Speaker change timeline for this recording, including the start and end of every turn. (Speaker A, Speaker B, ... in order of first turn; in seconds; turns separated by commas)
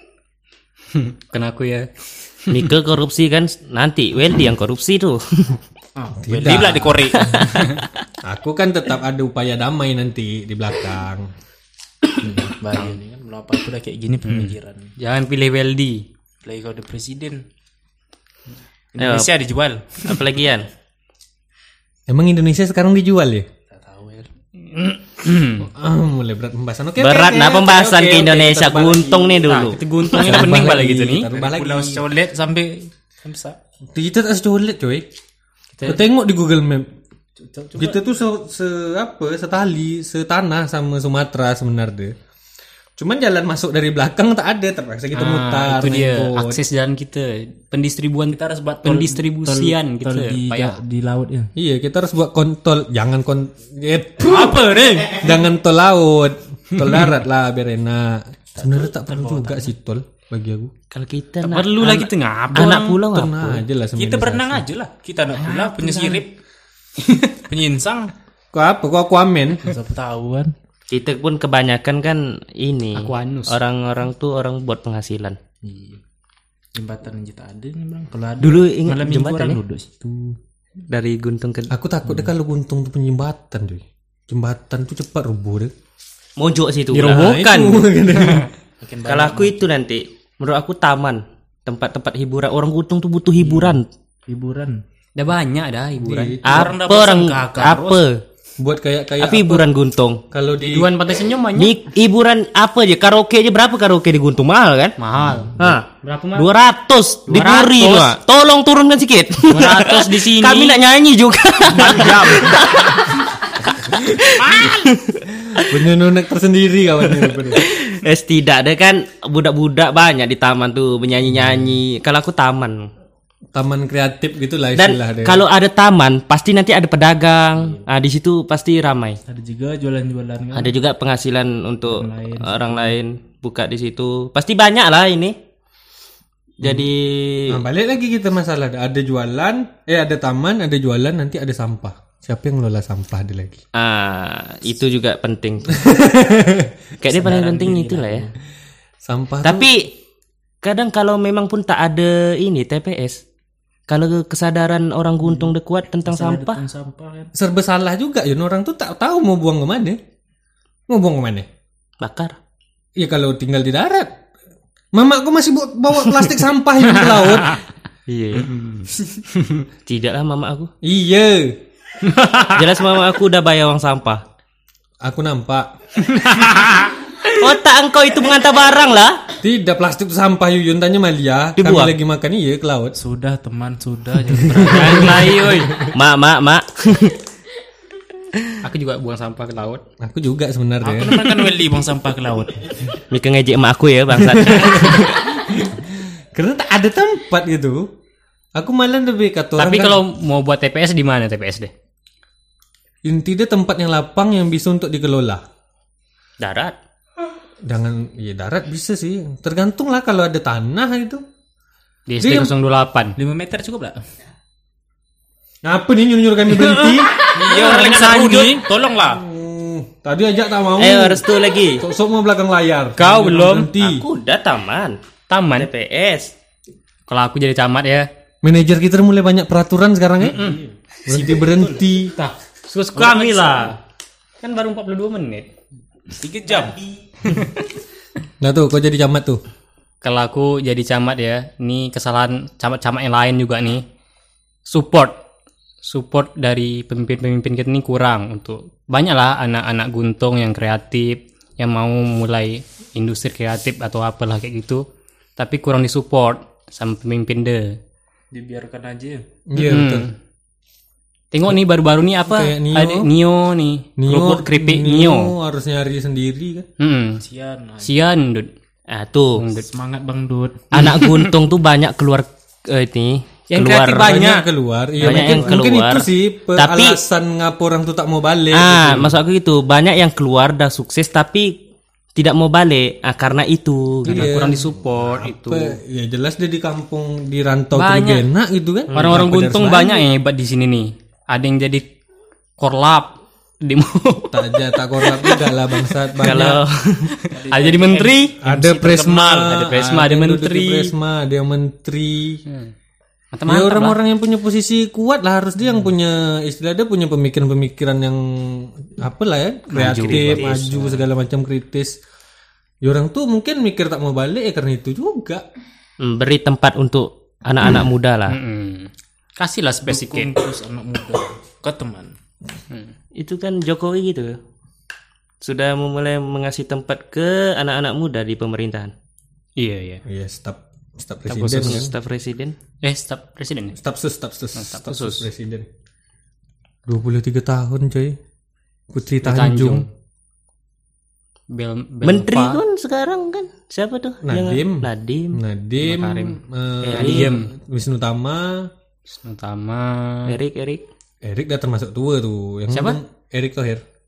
Speaker A: 0.9-1.9, Speaker A: 2.5-2.7, Speaker B: 2.5-5.6, Speaker C: 6.0-7.6, Speaker D: 6.2-7.2, Speaker B: 7.2-7.8, Speaker D: 8.2-11.3, Speaker C: 12.2-14.9, Speaker A: 14.2-16.0, Speaker C: 16.4-17.4, Speaker C: 18.9-20.3, Speaker B: 19.0-19.3, Speaker B: 20.0-20.7, Speaker D: 22.1-23.5, Speaker C: 23.7-24.3, Speaker A: 24.7-25.7, Speaker D: 25.6-29.5, Speaker B: 27.0-30.2, Speaker A: 29.4-31.3, Speaker D: 30.1-32.0, Speaker C: 31.3-33.6, Speaker D: 33.9-35.1, Speaker D: 35.8-36.9, Speaker C: 37.4-38.0, Speaker D: 37.8-42.1, Speaker D: 43.0-46.6, Speaker A: 45.2-50.8, Speaker C: 48.3-51.5, Speaker D: 51.6-60.7, Speaker C: 54.2-55.3, Speaker C: 58.6-59.7, Speaker B: 60.9-63.6, Speaker A: 61.4-63.0, Speaker D: 62.6-64.7, Speaker C: 64.0-66.4, Speaker A: 65.4-66.2, Speaker C: 67.5-68.1, Speaker D: 68.5-69.7, Speaker C: 69.6-70.5, Speaker B: 70.9-75.4, Speaker A: 73.0-73.6, Speaker C: 75.6-76.0, Speaker C: 76.8-80.4, Speaker B: 78.4-79.6, Speaker B: 80.9-81.7, Speaker D: 81.7-85.7, Speaker B: 86.4-87.3, Speaker A: 86.9-88.5, Speaker D: 87.0-88.5, Speaker C: 88.8-89.6, Speaker B: 89.0-93.9, Speaker C: 93.4-94.8, Speaker A: 95.2-96.4, Speaker D: 96.0-96.8, Speaker B: 96.4-98.2, Speaker C: 96.5-98.0, Speaker D: 98.6-99.7, Speaker B: 99.2-100.2, Speaker D: 100.3-100.9, Speaker A: 100.6-101.7, Speaker B: 101.6-105.0, Speaker A: 105.0-106.5, Speaker B: 105.6-115.8, Speaker A: 107.3-108.2, Speaker A: 109.5-110.8, Speaker A: 111.8-112.6, Speaker C: 114.4-114.7, Speaker D: 115.5-117.6, Speaker B: 117.3-122.9, Speaker D: 123.5-125.4, Speaker B: 124.8-129.2, Speaker C: 129.3-130.7, Speaker B: 130.5-135.4, Speaker C: 131.9-132.9, Speaker D: 136.6-136.9, Speaker B: 136.6-137.6, Speaker D: 137.5-143.6, Speaker B: 143.8-145.8, Speaker D: 145.7-146.7, Speaker B: 147.0-148.3, Speaker C: 147.1-148.3, Speaker D: 149.0-149.7, Speaker B: 149.4-149.9, Speaker B: 150.6-153.2, Speaker B: 153.9-156.7, Speaker C: 155.2-155.5, Speaker C: 156.1-157.3, Speaker D: 157.3-160.0, Speaker D: 160.9-161.5, Speaker B: 162.0-162.4, Speaker D: 163.0-164.1, Speaker D: 164.9-167.6, Speaker B: 168.1-168.6, Speaker B: 169.9-170.7, Speaker D: 170.8-171.6, Speaker A: 172.1-172.6, Speaker B: 172.5-174.2, Speaker D: 175.0-175.7, Speaker A: 176.1-177.0, Speaker B: 177.4-179.2, Speaker D: 179.4-183.0, Speaker B: 181.6-181.9, Speaker C: 183.0-185.3, Speaker D: 184.4-185.9, Speaker A: 184.7-185.8, Speaker B: 185.9-187.2, Speaker A: 188.6-189.8, Speaker D: 190.0-191.2, Speaker C: 190.8-192.7, Speaker B: 193.1-195.1, Speaker D: 194.3-197.9, Speaker D: 198.6-200.0, Speaker A: 199.6-201.7, Speaker D: 203.0-205.4, Speaker A: 206.4-206.8, Speaker D: 207.7-211.2, Speaker A: 212.1-213.2, Speaker D: 212.2-212.5, Speaker C: 213.2-214.0, Speaker D: 215.6-217.2, Speaker C: 217.3-219.2, Speaker A: 217.5-218.6, Speaker B: 217.5-218.3, Speaker D: 219.1-221.2, Speaker B: 220.8-221.8, Speaker D: 221.8-224.0, Speaker A: 223.0-223.7, Speaker B: 223.8-225.0, Speaker A: 225.3-225.7, Speaker B: 225.6-226.3, Speaker A: 227.1-228.1, Speaker D: 228.4-230.4, Speaker C: 230.3-231.8, Speaker A: 230.3-230.6, Speaker D: 231.1-232.2, Speaker A: 232.2-233.8, Speaker C: 233.0-233.8, Speaker A: 234.4-235.5, Speaker C: 236.1-236.8, Speaker A: 237.2-237.6, Speaker D: 238.4-239.4, Speaker A: 240.0-243.8, Speaker A: 244.7-245.2, Speaker A: 245.8-254.8, Speaker A: 255.4-257.8, Speaker C: 258.3-259.2, Speaker D: 259.5-260.1, Speaker A: 259.6-260.1, Speaker A: 261.3-265.3, Speaker D: 262.2-263.1, Speaker D: 264.0-266.7, Speaker A: 266.8-267.2, Speaker C: 267.2-267.9, Speaker A: 267.8-268.5, Speaker B: 268.9-269.4, Speaker A: 269.4-269.7, Speaker C: 269.7-270.6, Speaker B: 270.7-274.2, Speaker A: 270.8-271.3, Speaker A: 273.5-274.5, Speaker D: 273.9-279.1, Speaker A: 275.0-275.6, Speaker B: 275.0-277.0, Speaker B: 278.5-281.6, Speaker B: 282.2-284.3, Speaker A: 284.1-285.8, Speaker D: 284.1-290.1, Speaker A: 287.8-288.2, Speaker A: 288.9-291.9, Speaker A: 292.6-295.5, Speaker D: 294.3-296.6, Speaker B: 296.2-297.1, Speaker C: 297.3-298.6, Speaker A: 297.5-300.9, Speaker D: 298.4-302.4, Speaker A: 303.3-304.0, Speaker D: 303.5-312.0, Speaker A: 309.7-310.9, Speaker C: 310.0-310.8, Speaker D: 312.8-315.4, Speaker B: 316.0-318.4, Speaker A: 318.3-320.3, Speaker C: 319.9-322.1, Speaker B: 323.2-324.4, Speaker B: 325.4-328.9, Speaker A: 329.6-330.0, Speaker D: 330.1-331.9, Speaker A: 331.3-331.8, Speaker B: 331.6-332.6, Speaker A: 332.8-333.8, Speaker D: 333.8-335.7, Speaker A: 334.6-335.3, Speaker D: 336.9-338.2, Speaker D: 338.9-339.9, Speaker A: 339.2-339.9, Speaker A: 341.5-342.6, Speaker B: 342.0-345.4, Speaker D: 344.2-348.7, Speaker A: 345.8-347.5, Speaker B: 346.8-347.3, Speaker A: 349.2-350.3, Speaker B: 350.3-350.8, Speaker D: 351.2-353.8, Speaker A: 352.7-353.0